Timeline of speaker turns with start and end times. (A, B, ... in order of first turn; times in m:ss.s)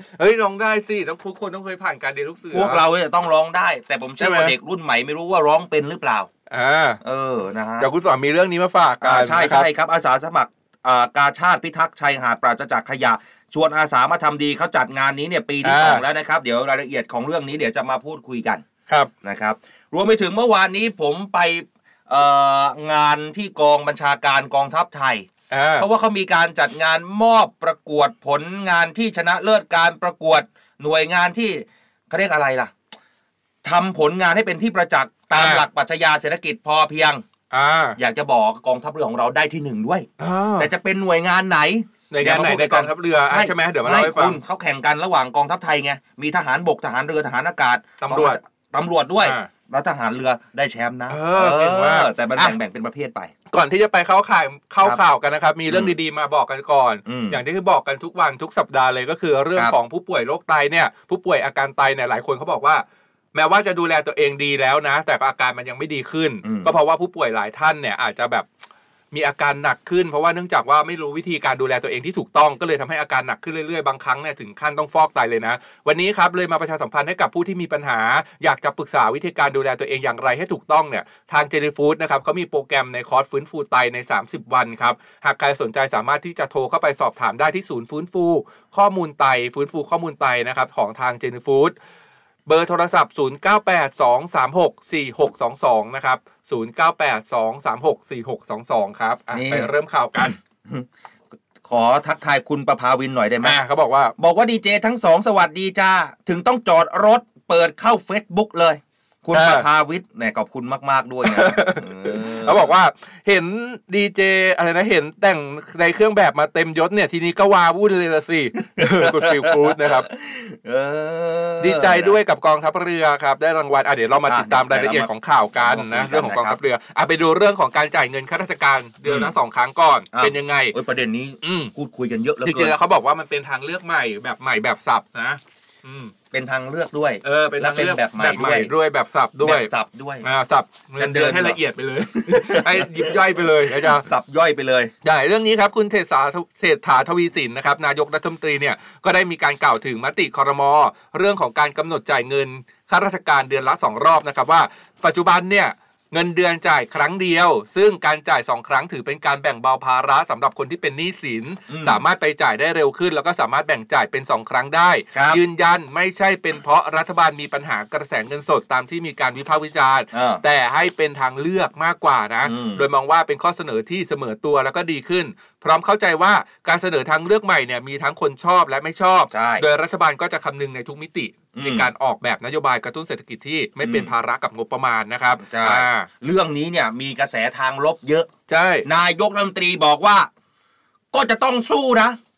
0:00.2-0:02.8 A
0:02.5-0:06.3 B
0:04.2-0:04.5 A
0:06.5-0:07.0 A
0:07.0-0:07.9 B
0:07.8-0:09.7 A
0:09.0-0:18.6 B
0:15.6-0:16.0 A
0:19.2-0:32.7 B
0:25.5-0:25.9 A
0:33.6-0:37.2 B
0:35.3-0:35.6 A
0:37.5-0:38.0 A
0:38.0-0:53.3 B
0:40.2-0:40.7 A
0:42.1-0:44.4 A
0:48.0-0:48.4 A
0:49.2-0:49.5 A
0:51.1-0:52.6 A
0:53.5-1:08.5 A
0:55.7-0:55.9 B
0:57.0-0:57.4 B
1:06.4-1:06.7 B
1:09.1-1:31.7 A
1:32.4-1:40.4 A
1:39.3-1:40.9 B
1:41.6-1:43.6 B
1:43.4-1:44.1 A
1:44.2-1:52.7 B
1:49.3-1:49.6 A
1:51.2-2:00.1 A
1:58.8-2:02.2 B
2:01.6-2:10.8 A
2:04.2-2:06.6 B
2:09.0-2:09.3 B
2:10.1-2:12.8 B
2:11.4-2:11.7 A
2:12.4-2:16.1 A
2:16.3-2:18.7 B
2:17.2-2:19.7 A
2:19.4-2:20.3 B
2:20.2-2:24.0 A
2:21.0-2:21.6 B
2:22.2-2:24.9 B
2:25.0-3:06.1 A
2:41.7-2:42.0 B
2:45.1-2:45.4 B
2:50.1-2:50.4 B
2:52.4-2:52.8 B
2:59.3-2:59.6 B
3:01.5-3:01.9 B
3:03.8-3:04.1 B
3:05.4-3:08.3 B
3:08.5-3:08.8 A
3:08.8-3:10.3 B
3:11.1-3:12.2 B